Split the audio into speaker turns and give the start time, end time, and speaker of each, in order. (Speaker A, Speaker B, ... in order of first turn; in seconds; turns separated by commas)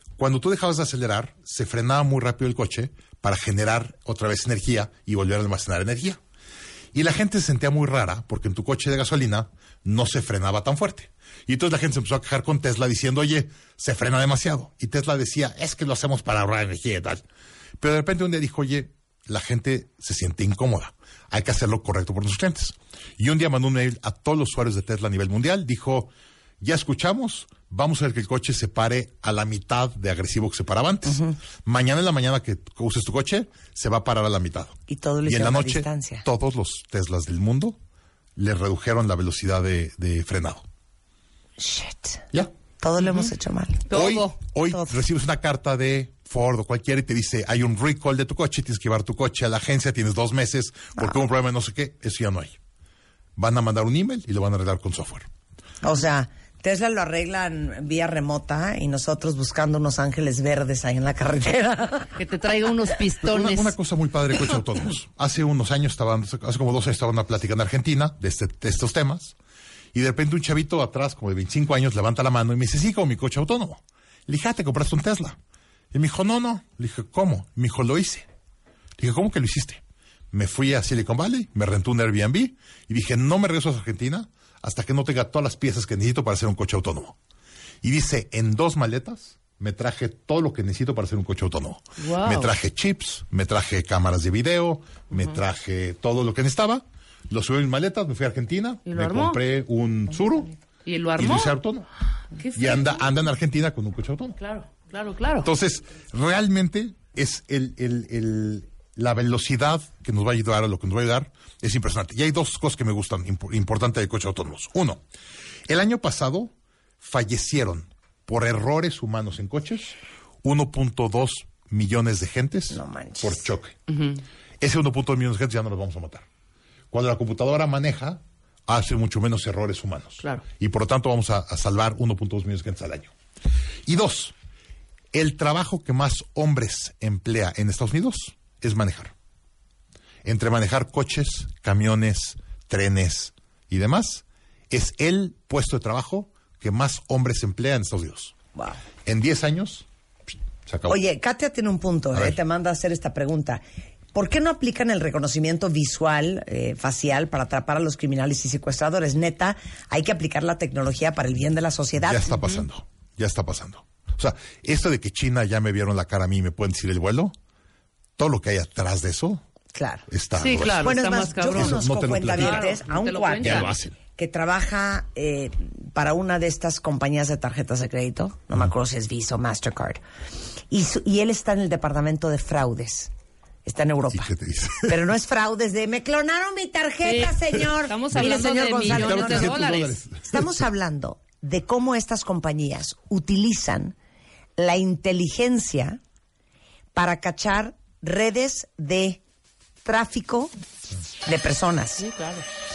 Speaker A: 0.2-6.2, Speaker A: 6.9-17.2, Speaker A: 17.8-37.8, Speaker B: 31.1-31.4, Speaker B: 34.9-36.2, Speaker A: 38.4-40.6, Speaker B: 41.6-42.2, Speaker B: 42.8-43.9, Speaker C: 43.9-44.3, Speaker A: 43.9-52.5, Speaker B: 44.6-45.0, Speaker A: 53.4-55.3, Speaker B: 55.8-62.1, Speaker C: 62.1-63.7, Speaker A: 63.2-69.3, Speaker A: 69.9-75.4, Speaker A: 75.9-78.3, Speaker A: 79.0-87.2, Speaker A: 87.8-100.5, Speaker C: 92.0-92.5, Speaker C: 98.9-99.4, Speaker C: 100.8-101.5, Speaker A: 101.2-101.9, Speaker C: 102.3-103.0, Speaker A: 102.5-104.4, Speaker C: 104.4-105.5, Speaker A: 105.4-115.0, Speaker A: 115.7-123.8, Speaker B: 122.7-123.4, Speaker C: 123.9-124.2, Speaker A: 124.6-126.2, Speaker A: 126.9-133.1, Speaker A: 133.8-134.3, Speaker A: 135.1-139.1, Speaker A: 140.2-148.3, Speaker B: 148.5-148.8, Speaker A: 149.0-149.8, Speaker A: 150.7-151.0, Speaker B: 150.9-153.6, Speaker B: 154.1-162.3, Speaker A: 162.0-167.3, Speaker A: 168.2-169.4, Speaker B: 169.7-170.1, Speaker A: 170.1-170.9, Speaker C: 170.4-173.7, Speaker B: 170.8-180.0, Speaker A: 171.5-172.7, Speaker A: 173.4-173.9, Speaker B: 180.7-183.1, Speaker B: 183.7-184.3, Speaker A: 184.1-185.0, Speaker B: 184.8-193.9, Speaker C: 187.0-189.9, Speaker A: 188.1-190.6, Speaker B: 194.6-196.0, Speaker B: 196.9-199.2, Speaker B: 199.8-200.5, Speaker B: 201.2-202.1, Speaker C: 202.0-202.4